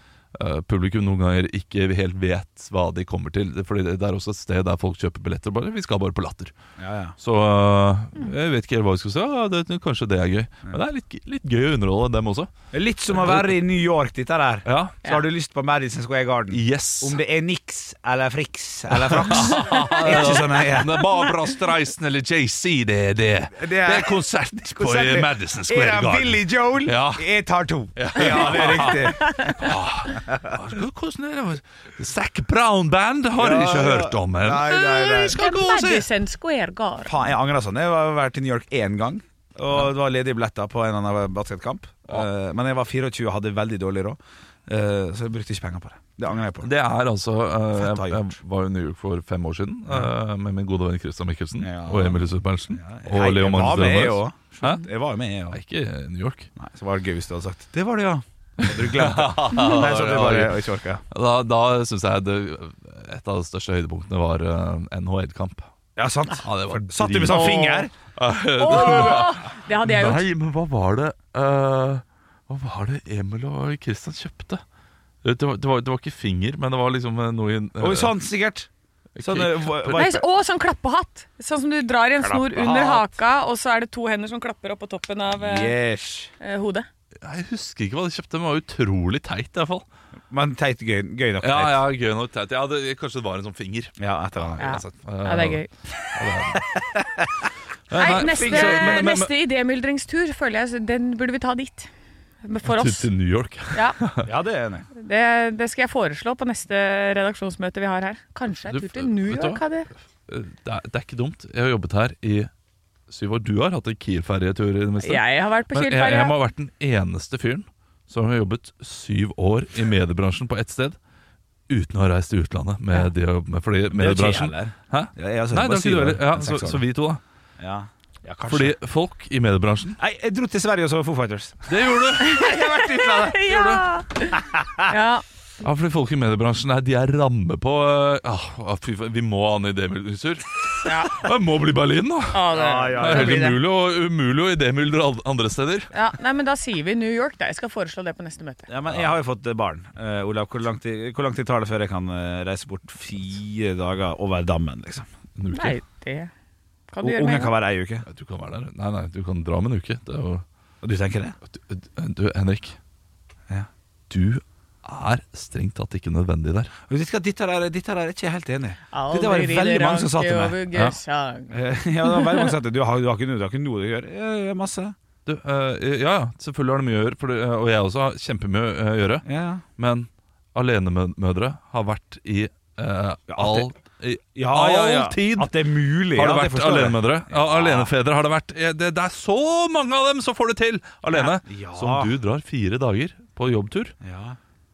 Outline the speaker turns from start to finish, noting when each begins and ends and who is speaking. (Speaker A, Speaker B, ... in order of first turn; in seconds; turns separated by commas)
Speaker A: 0.3-6.5, Speaker B: 6.8-7.2, Speaker A: 7.2-12.5, Speaker B: 12.7-21.1, Speaker A: 13.1-13.6, Speaker A: 14.7-15.0, Speaker C: 15.0-15.3, Speaker A: 16.5-17.2, Speaker A: 18.9-27.2, Speaker C: 20.0-20.4, Speaker B: 23.6-24.2, Speaker B: 24.7-30.4, Speaker A: 28.0-36.1, Speaker B: 33.4-35.4, Speaker C: 35.3-37.1, Speaker B: 37.0-46.7, Speaker A: 46.6-54.8, Speaker B: 47.8-48.4, Speaker B: 51.6-55.6, Speaker A: 55.5-56.5, Speaker B: 56.6-61.0, Speaker A: 58.6-60.6, Speaker A: 61.1-65.7, Speaker B: 66.0-67.9, Speaker A: 66.4-74.6, Speaker C: 67.3-67.8, Speaker C: 68.6-70.2, Speaker A: 75.2-78.2, Speaker B: 77.8-78.7, Speaker A: 79.2-80.1, Speaker B: 79.2-80.2, Speaker C: 79.9-85.8, Speaker B: 82.2-83.0, Speaker B: 85.4-86.3, Speaker C: 86.4-86.9, Speaker A: 87.2-89.8, Speaker B: 90.3-91.8, Speaker A: 91.4-95.6, Speaker B: 94.0-94.8, Speaker C: 94.6-96.1, Speaker A: 96.1-96.7, Speaker B: 96.5-97.3, Speaker A: 97.9-99.3, Speaker C: 97.9-101.9, Speaker B: 98.0-99.1, Speaker C: 102.4-103.1, Speaker A: 102.7-104.3, Speaker C: 103.7-104.0, Speaker B: 104.2-104.9, Speaker C: 105.0-109.9, Speaker A: 108.7-109.6, Speaker A: 110.3-112.5, Speaker A: 113.1-121.0, Speaker C: 115.0-116.3, Speaker A: 121.7-127.2, Speaker B: 124.0-126.8, Speaker B: 127.6-128.8, Speaker A: 128.5-130.0, Speaker B: 130.0-131.7, Speaker A: 131.7-133.9, Speaker C: 132.2-135.2, Speaker B: 134.4-134.9, Speaker A: 135.6-145.9, Speaker C: 140.8-141.3, Speaker C: 142.3-143.6, Speaker B: 142.5-143.5, Speaker C: 145.9-148.7, Speaker B: 148.7-155.1, Speaker A: 148.9-149.2, Speaker A: 155.4-155.8, Speaker C: 155.5-156.3, Speaker C: 156.9-157.6, Speaker B: 157.0-158.1, Speaker A: 158.1-160.4, Speaker B: 160.8-161.4, Speaker A: 161.5-162.8, Speaker A: 164.1-166.7, Speaker B: 166.9-170.6, Speaker C: 168.9-172.5, Speaker A: 170.7-171.0, Speaker B: 171.5-174.9, Speaker A: 175.3-179.3, Speaker B: 179.2-179.6, Speaker A: 179.8-185.5, Speaker B: 183.3-183.7, Speaker B: 184.4-187.9, Speaker A: 186.1-194.0, Speaker B: 191.1-192.1, Speaker B: 194.0-194.4